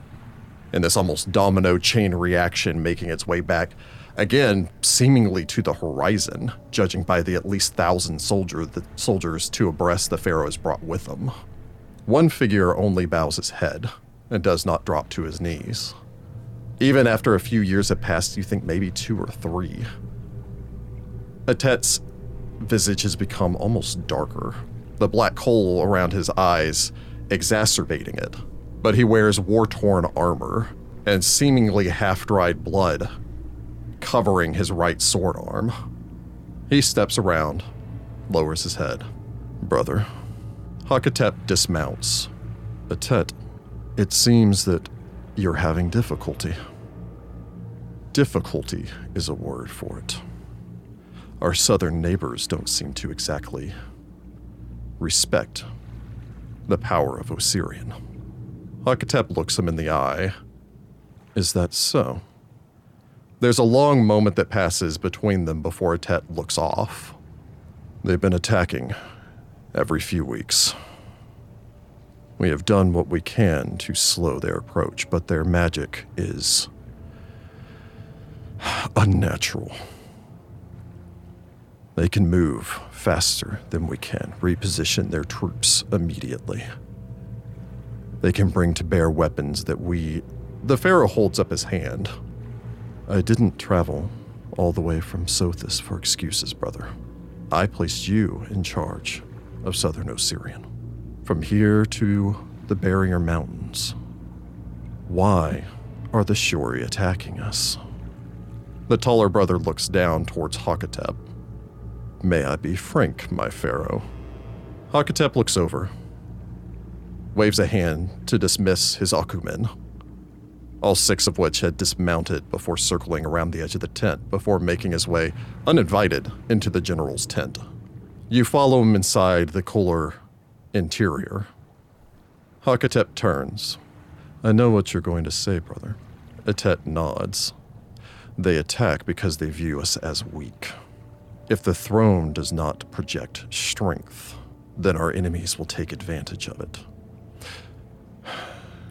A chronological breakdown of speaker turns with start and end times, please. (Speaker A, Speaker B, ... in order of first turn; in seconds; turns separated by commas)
Speaker A: 0.7-11.3, Speaker A: 12.1-15.9, Speaker A: 16.8-19.9, Speaker A: 21.5-22.0, Speaker A: 22.6-33.1, Speaker A: 34.0-35.7, Speaker A: 36.7-37.6, Speaker A: 38.3-39.0, Speaker A: 39.6-40.1, Speaker A: 40.8-42.3, Speaker A: 42.9-43.4, Speaker A: 44.0-46.6, Speaker A: 48.1-50.2, Speaker A: 51.4-53.7, Speaker A: 55.0-55.7, Speaker A: 56.7-58.0, Speaker A: 58.8-60.3, Speaker A: 61.3-62.2, Speaker A: 63.4-67.2, Speaker A: 68.0-69.0, Speaker A: 69.7-70.7, Speaker A: 72.4-76.7, Speaker A: 78.6-79.8, Speaker A: 82.0-86.7, Speaker A: 88.2-92.1, Speaker A: 93.1-96.9, Speaker A: 97.5-100.6, Speaker A: 101.2-103.9, Speaker A: 105.1-107.8, Speaker A: 108.9-111.2, Speaker A: 112.2-114.1, Speaker A: 114.9-115.9, Speaker A: 117.3-119.7, Speaker A: 120.8-127.6, Speaker A: 128.3-130.2, Speaker A: 130.7-131.5, Speaker A: 132.6-133.8, Speaker A: 134.4-137.5, Speaker A: 138.4-140.7, Speaker A: 141.5-146.8